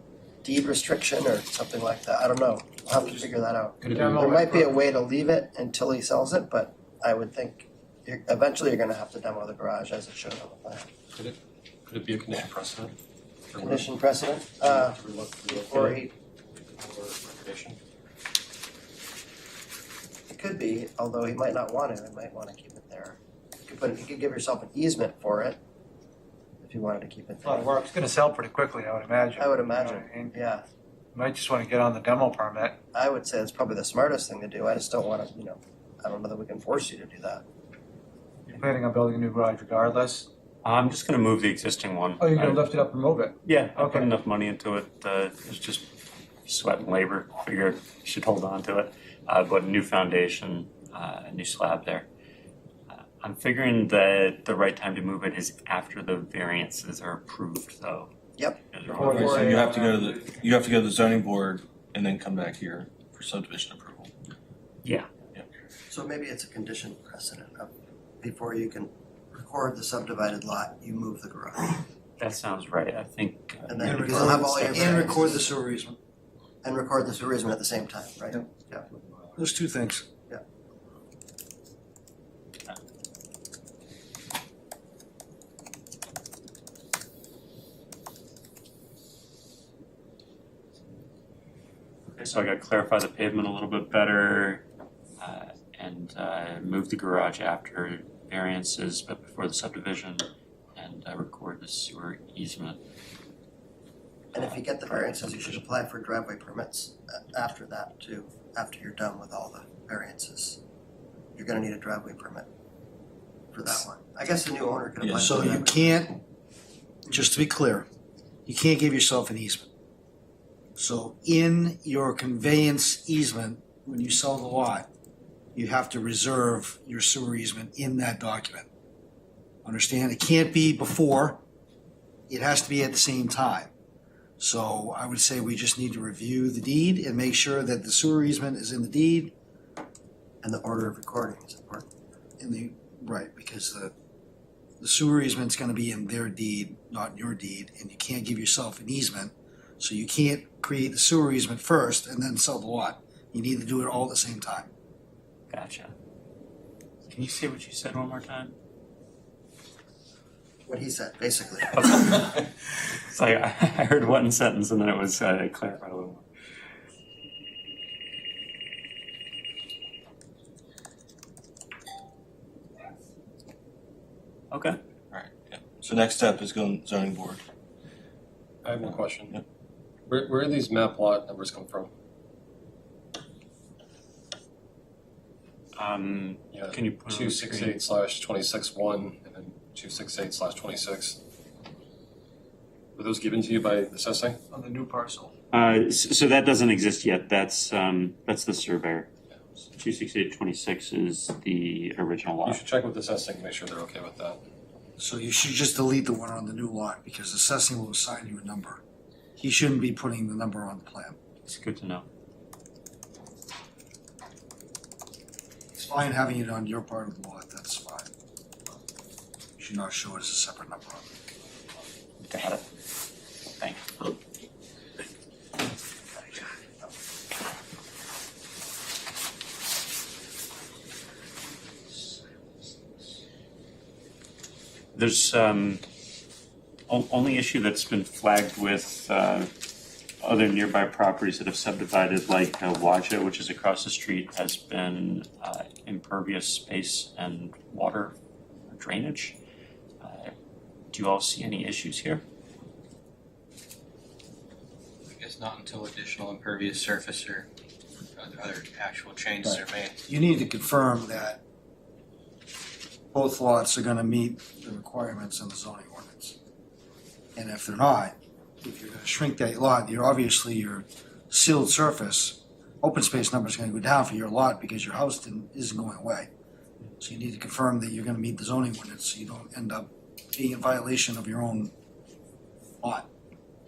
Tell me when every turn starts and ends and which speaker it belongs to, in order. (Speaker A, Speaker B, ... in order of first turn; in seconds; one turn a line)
Speaker A: 0.4-10.9
Speaker B: 3.8-4.7
Speaker C: 11.1-12.9
Speaker C: 13.5-13.9
Speaker A: 13.6-15.0
Speaker C: 14.6-16.0
Speaker A: 15.5-16.1
Speaker C: 16.6-17.8
Speaker A: 20.3-25.6
Speaker A: 26.6-27.7
Speaker B: 27.4-30.3
Speaker A: 29.4-30.6
Speaker B: 31.1-32.8
Speaker A: 32.9-37.4
Speaker B: 38.5-40.3
Speaker D: 40.6-42.7
Speaker B: 42.2-44.1
Speaker D: 43.4-45.9
Speaker D: 46.5-52.1
Speaker D: 52.9-58.1
Speaker A: 58.4-59.5
Speaker D: 58.7-59.5
Speaker B: 59.0-60.3
Speaker E: 59.0-64.1
Speaker A: 65.9-67.7
Speaker A: 68.2-71.8
Speaker D: 72.2-74.4
Speaker A: 73.7-75.5
Speaker F: 73.8-76.0
Speaker A: 76.6-78.8
Speaker F: 79.3-80.0
Speaker D: 92.1-94.6
Speaker D: 95.2-102.8
Speaker A: 104.3-110.6
Speaker A: 111.3-112.5
Speaker A: 113.5-115.8
Speaker E: 115.0-115.4
Speaker F: 115.2-116.2
Speaker F: 117.1-117.8
Speaker F: 118.5-119.7
Speaker F: 120.8-124.9
Speaker F: 125.5-128.7
Speaker F: 129.6-131.4
Speaker F: 132.3-133.7
Speaker F: 134.4-139.3
Speaker A: 140.4-141.9
Speaker F: 142.4-143.9
Speaker F: 144.8-154.7
Speaker D: 155.5-155.9
Speaker D: 157.1-158.5
Speaker A: 160.7-161.8
Speaker D: 161.7-166.2
Speaker D: 174.5-174.8
Speaker E: 175.1-177.4
Speaker C: 178.6-179.4
Speaker E: 178.8-179.4
Speaker C: 180.1-181.9
Speaker D: 185.7-187.8
Speaker C: 186.5-191.2
Speaker C: 192.9-194.4
Speaker B: 194.5-195.3
Speaker D: 195.5-199.1
Speaker D: 199.7-202.6
Speaker C: 202.4-204.4
Speaker F: 205.0-208.8
Speaker F: 209.4-211.2
Speaker D: 211.4-212.1
Speaker F: 215.7-218.1
Speaker F: 219.6-221.1
Speaker D: 222.2-222.6
Speaker D: 223.6-224.1
Speaker D: 234.9-235.8
Speaker D: 236.9-239.5
Speaker D: 240.2-248.1
Speaker D: 248.7-249.4
Speaker D: 250.0-250.3
Speaker D: 250.9-252.2
Speaker G: 255.1-257.5
Speaker G: 258.1-260.0
Speaker F: 259.4-261.4
Speaker F: 263.1-266.4
Speaker F: 267.4-276.3
Speaker F: 277.0-281.7
Speaker F: 282.8-283.1